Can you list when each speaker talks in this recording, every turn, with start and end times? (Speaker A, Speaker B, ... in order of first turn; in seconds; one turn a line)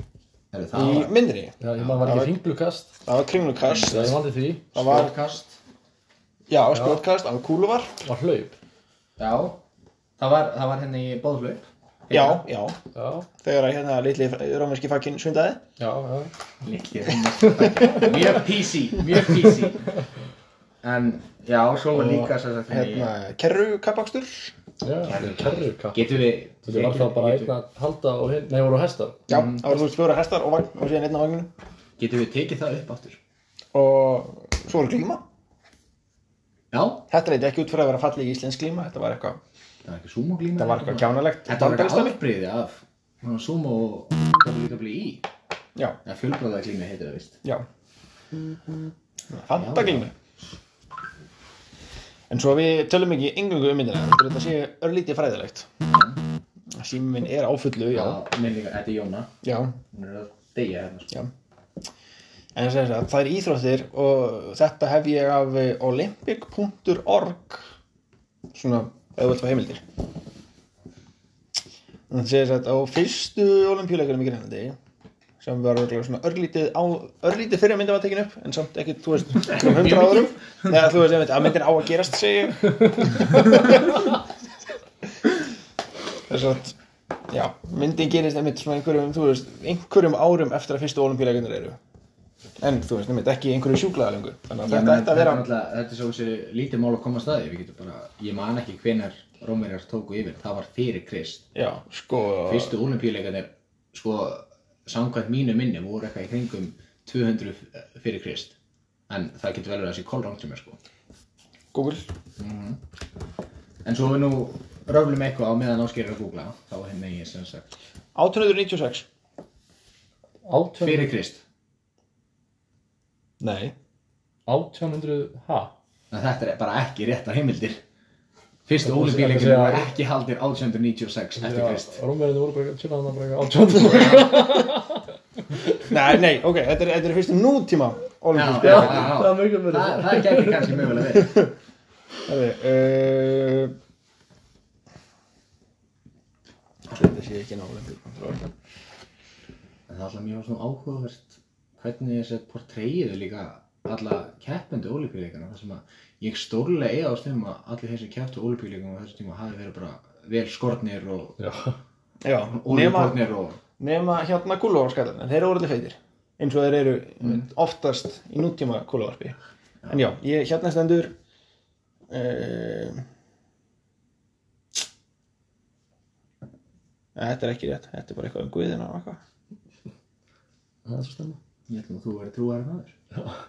Speaker A: 0.5-1.1
Speaker B: 0.7-2.3
Speaker C: 1.6-2.9
Speaker A: 1.8-2.0
Speaker B: 3.1-4.2
Speaker A: 3.7-4.0
Speaker C: 3.7-4.7
Speaker B: 4.7-5.1
Speaker A: 4.7-5.6
Speaker B: 6.5-8.0
Speaker C: 6.7-7.0
Speaker C: 8.0-8.6
Speaker A: 9.2-9.6
Speaker A: 10.2-12.4
Speaker B: 12.1-12.8
Speaker C: 12.9-13.3
Speaker B: 13.4-15.6
Speaker C: 15.8-16.3
Speaker A: 16.6-19.9
Speaker C: 17.7-18.2
Speaker A: 20.8-23.1
Speaker B: 21.9-24.5
Speaker C: 24.8-29.2
Speaker A: 25.0-27.5
Speaker B: 29.3-31.5
Speaker A: 29.3-29.6
Speaker A: 32.0-33.2
Speaker B: 33.7-35.2
Speaker A: 36.7-37.1
Speaker B: 37.1-39.4
Speaker A: 39.8-45.2
Speaker B: 40.6-42.2
Speaker A: 46.0-47.4
Speaker B: 49.3-50.1
Speaker A: 49.5-50.1
Speaker B: 52.3-55.7
Speaker A: 55.9-56.2
Speaker B: 56.7-58.2
Speaker A: 57.9-59.4
Speaker B: 59.4-59.7
Speaker A: 59.9-61.1
Speaker B: 62.5-67.7
Speaker B: 68.5-69.8
Speaker B: 72.1-74.8
Speaker B: 75.4-83.9
Speaker A: 79.5-80.2
Speaker B: 86.3-86.8
Speaker B: 87.3-91.8
Speaker B: 92.6-95.5
Speaker A: 94.6-101.5
Speaker B: 101.5-102.8
Speaker A: 102.5-108.5
Speaker A: 109.1-110.8
Speaker B: 111.7-112.1
Speaker A: 112.4-112.8
Speaker A: 113.8-117.7
Speaker B: 118.1-119.1
Speaker C: 120.4-121.1
Speaker A: 120.8-121.4
Speaker B: 123.4-123.7
Speaker C: 124.5-125.7
Speaker A: 126.1-127.8
Speaker A: 128.7-132.0
Speaker C: 128.8-129.9
Speaker C: 131.4-135.1
Speaker A: 133.8-134.4
Speaker B: 135.9-139.2
Speaker A: 138.3-141.5
Speaker C: 138.5-140.9
Speaker B: 141.1-141.5
Speaker B: 142.2-143.7
Speaker B: 146.9-148.5
Speaker A: 149.9-161.4
Speaker C: 161.4-161.8
Speaker B: 162.2-163.2
Speaker A: 162.5-163.6
Speaker B: 163.8-169.3
Speaker B: 169.9-171.1
Speaker B: 172.1-173.0
Speaker B: 177.1-179.2
Speaker C: 180.8-181.4
Speaker A: 181.7-183.0